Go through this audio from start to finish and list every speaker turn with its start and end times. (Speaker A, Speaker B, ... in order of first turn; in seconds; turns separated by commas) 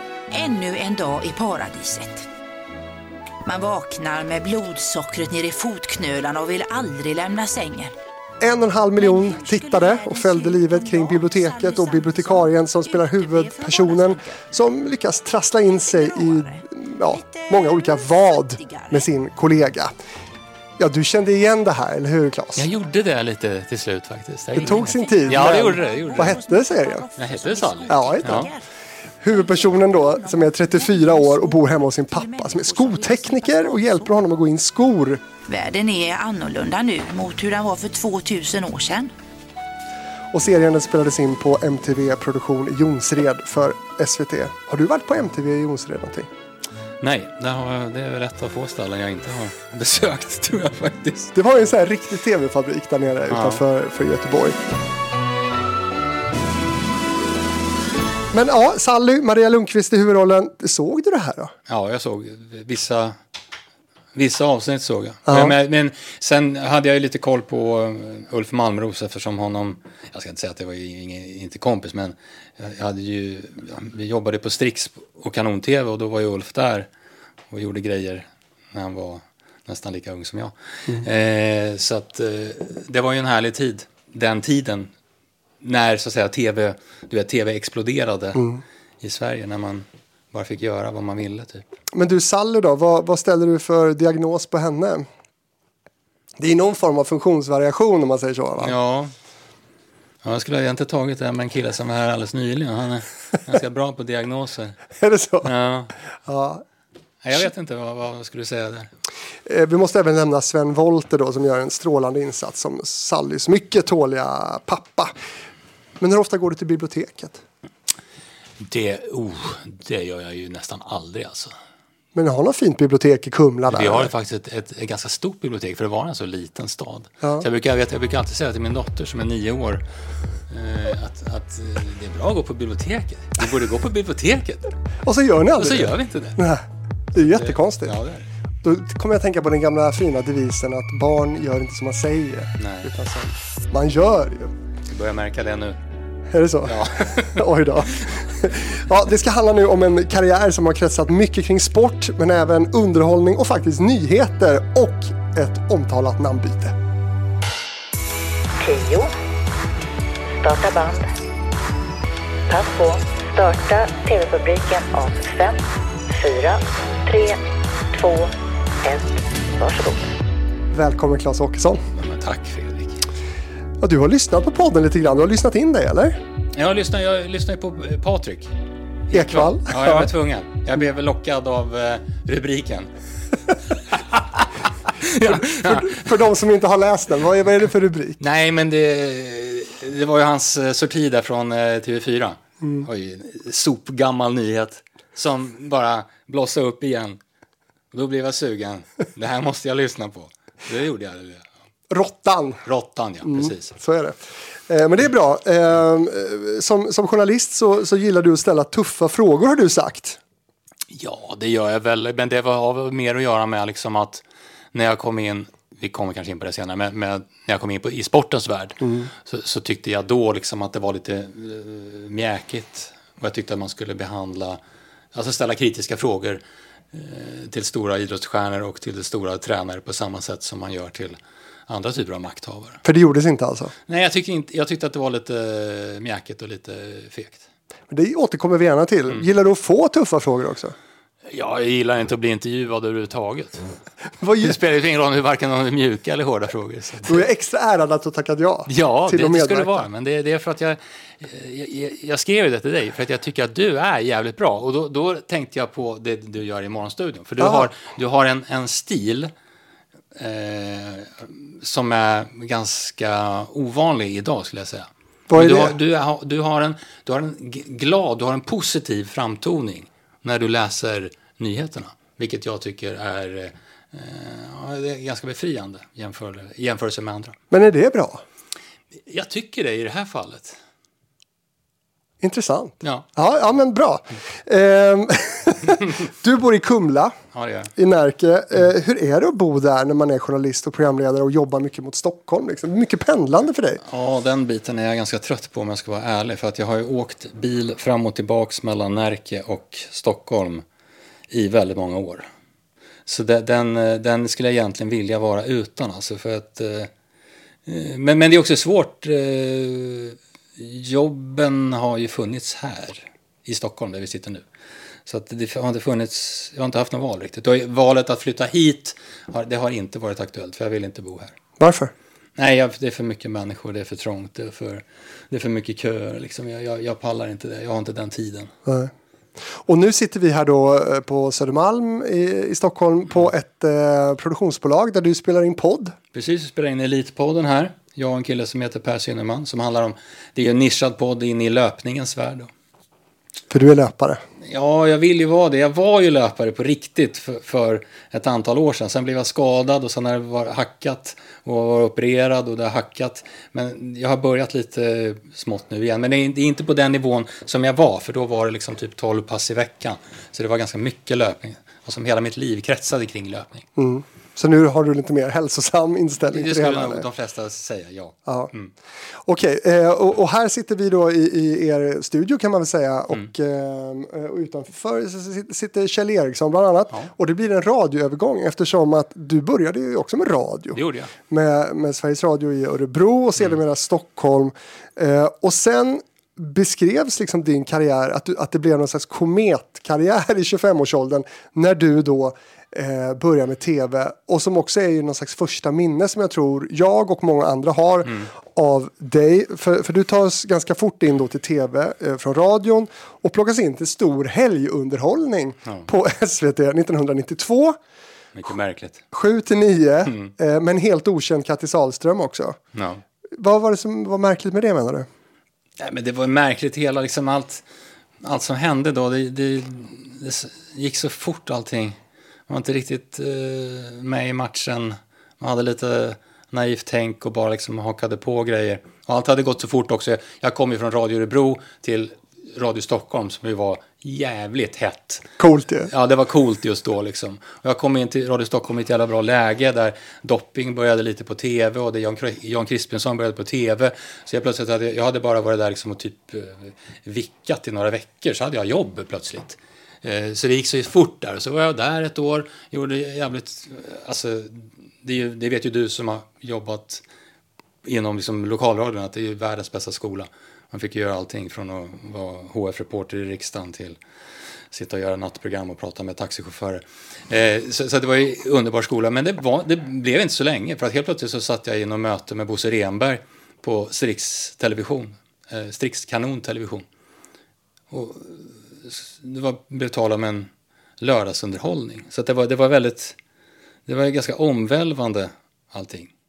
Speaker A: 0.3-2.3, Speaker A: 3.4-7.9, Speaker B: 8.4-19.9, Speaker A: 9.0-14.5, Speaker A: 15.7-18.0, Speaker A: 18.6-19.0, Speaker B: 20.8-22.7, Speaker C: 22.6-26.3, Speaker B: 24.5-27.1, Speaker A: 24.7-28.7, Speaker C: 27.2-28.5, Speaker B: 27.9-28.5, Speaker B: 29.2-35.2, Speaker A: 29.2-34.2, Speaker A: 35.5-39.1, Speaker B: 40.3-46.3, Speaker C: 47.0-51.4, Speaker B: 51.3-54.6, Speaker C: 53.3-53.6, Speaker B: 58.3-61.5, Speaker C: 61.7-63.1, Speaker C: 64.1-76.9, Speaker B: 65.3-65.5, Speaker C: 77.5-84.9, Speaker C: 85.6-88.4, Speaker B: 88.3-88.6, Speaker C: 89.0-91.6, Speaker B: 91.9-95.1, Speaker B: 96.4-98.7, Speaker C: 98.6-99.1, Speaker C: 100.2-104.8, Speaker B: 105.0-105.5, Speaker C: 105.4-105.9, Speaker B: 106.2-106.6, Speaker C: 107.2-108.9, Speaker B: 109.5-115.1, Speaker B: 116.0-117.4, Speaker C: 118.6-121.5, Speaker B: 122.1-124.1, Speaker C: 123.7-129.8, Speaker B: 127.2-127.5, Speaker C: 130.5-134.7, Speaker B: 135.0-137.9, Speaker C: 135.6-136.4, Speaker C: 137.2-138.3, Speaker B: 138.6-144.5, Speaker C: 142.6-142.9, Speaker C: 144.9-145.8, Speaker B: 146.3-156.8, Speaker C: 146.6-147.4, Speaker D: 158.6-159.1, Speaker D: 160.3-161.1, Speaker D: 162.5-168.3, Speaker D: 168.8-170.1, Speaker B: 170.7-171.8, Speaker C: 171.9-173.0, Speaker B: 173.8-176.2, Speaker C: 176.5-178.5, Speaker C: 179.1-182.9, Speaker B: 179.1-180.1, Speaker C: 184.1-186.0, Speaker B: 185.1-188.2, Speaker C: 188.2-197.2, Speaker B: 192.6-192.9, Speaker C: 197.9-201.5, Speaker B: 201.9-202.6, Speaker C: 202.6-203.7, Speaker B: 203.2-210.2, Speaker C: 210.9-214.2, Speaker C: 214.7-224.6, Speaker B: 218.8-219.1, Speaker C: 225.1-226.4, Speaker C: 226.9-232.8, Speaker B: 232.8-233.7, Speaker C: 233.9-237.4, Speaker B: 237.9-240.7, Speaker C: 241.3-243.6, Speaker B: 244.2-244.6, Speaker C: 244.4-247.2, Speaker B: 247.1-249.9, Speaker C: 248.7-259.3, Speaker B: 257.4-257.7, Speaker C: 260.1-277.4, Speaker B: 265.3-265.8, Speaker B: 277.5-278.2, Speaker C: 279.1-280.6, Speaker B: 282.2-287.1, Speaker C: 287.3-287.7, Speaker B: 287.8-293.8, Speaker C: 293.8-300.6, Speaker C: 301.3-302.2, Speaker C: 303.1-306.9, Speaker C: 307.6-314.4, Speaker C: 315.1-321.3, Speaker B: 321.6-321.9, Speaker C: 322.4-328.5, Speaker B: 328.6-328.9, Speaker B: 329.5-335.9, Speaker C: 336.1-342.5, Speaker B: 343.5-344.2, Speaker C: 344.4-363.6, Speaker B: 363.8-367.0, Speaker C: 366.3-368.7, Speaker B: 368.2-368.5, Speaker B: 369.2-407.8, Speaker C: 380.7-381.1, Speaker C: 398.0-398.3, Speaker C: 408.3-409.0, Speaker B: 409.1-412.6, Speaker C: 410.1-410.3, Speaker C: 412.7-413.0, Speaker B: 413.3-415.1, Speaker C: 415.8-417.6, Speaker C: 418.2-422.0, Speaker C: 422.5-435.3, Speaker B: 435.4-435.9, Speaker C: 435.9-457.0, Speaker C: 457.8-464.0, Speaker C: 464.7-476.8, Speaker C: 477.9-483.1, Speaker C: 483.9-486.1